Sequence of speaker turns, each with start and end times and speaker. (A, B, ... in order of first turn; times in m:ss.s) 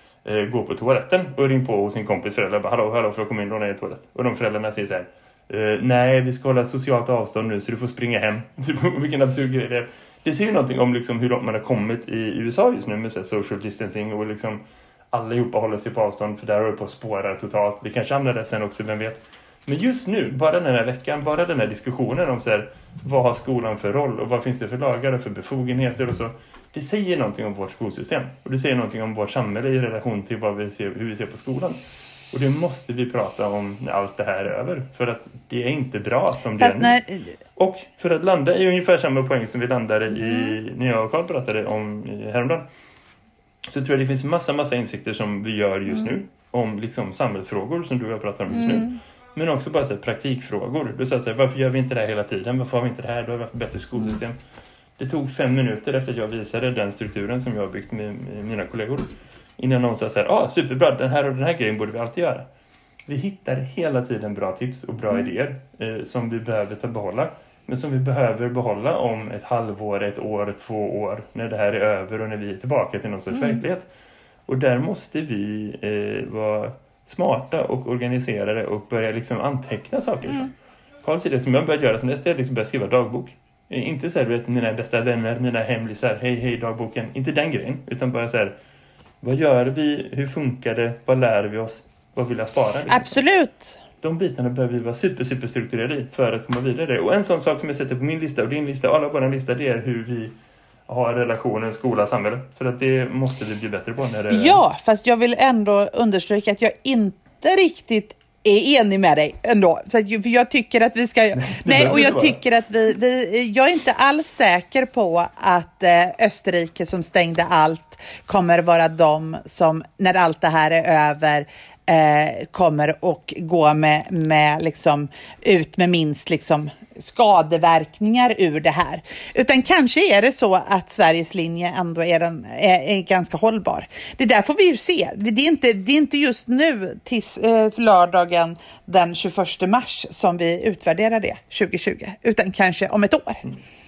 0:00.2-0:31.8 A
0:32.3-0:37.0 A
0:36.6-0:37.3 B
0:37.6-0:42.7 A
0:40.2-0:40.5 B
0:43.6-0:54.4 A
0:48.5-0:49.0 B
0:55.0-1:02.5 A
1:03.1-1:13.9 A
1:13.3-1:13.6 B
1:14.5-1:20.5 A
1:21.0-1:28.5 A
1:29.2-1:33.1 A
1:32.9-1:33.8 B
1:34.0-1:40.4 A
1:40.9-1:44.6 A
1:44.2-2:23.4 B
1:51.3-1:52.4 A